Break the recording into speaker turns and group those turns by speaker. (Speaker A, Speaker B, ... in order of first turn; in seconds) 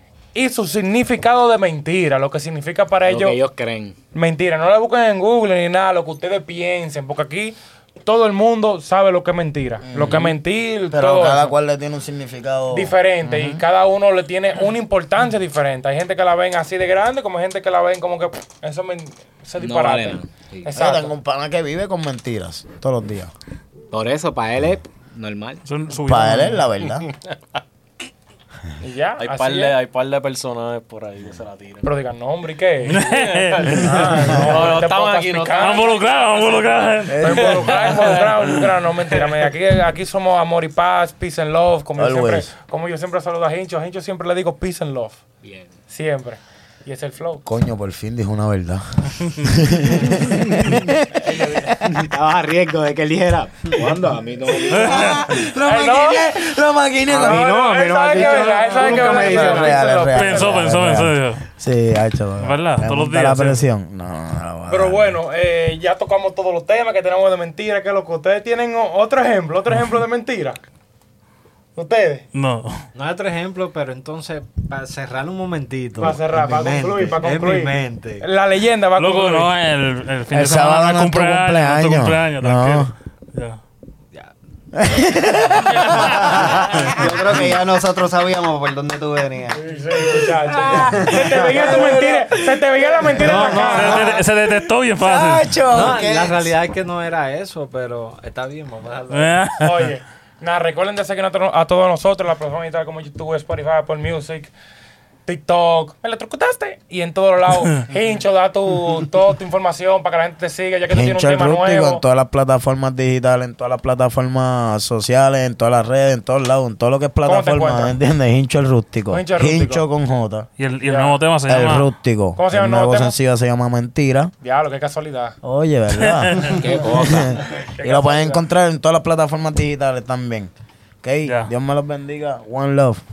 Speaker A: 0.3-3.4, 4.1-11.5, 12.7-21.1, 28.8-29.8, 31.8-33.0, 33.8-36.0, 37.2-45.2, 45.9-47.4, 55.6-56.2, 57.2-60.6, 64.7-70.6, 71.8-72.2, 76.0-79.5, 89.5-94.1, 99.6-104.5, 105.2-112.0, 117.2-117.9, 119.1-119.8, 120.8-121.2, 122.4-123.2, 124.4-125.3, 127.7-128.4
Speaker B: 3.0-4.0, 19.6-20.7, 23.9-25.6, 45.4-45.7, 51.4-55.1, 57.1-59.9, 126.5-127.4
Speaker C: 9.8-10.4, 10.9-13.6, 20.7-23.3, 26.0-27.1, 34.1-34.4, 37.1-37.6, 42.0-42.5, 47.4-52.0, 54.5-57.5, 58.2-65.2, 76.0-76.6, 80.3-82.9, 84.7-87.4, 90.6-92.1, 95.0-96.5, 110.9-120.5, 121.5-124.3, 125.4-130.5, 131.0-133.0
Speaker D: 25.6-26.6, 32.9-33.9, 35.6-37.9, 54.7-55.3, 60.1-61.4, 62.4-63.6, 72.3-72.8, 79.0-83.6, 93.6-95.5, 99.1-99.9, 120.6-121.9, 126.1-126.5
Speaker E: 29.2-31.9, 33.0-36.8, 37.5-38.2
Speaker F: 72.9-78.2, 86.1-86.7, 91.5-92.3, 93.0-94.2, 95.7-99.4
Speaker G: 86.9-89.6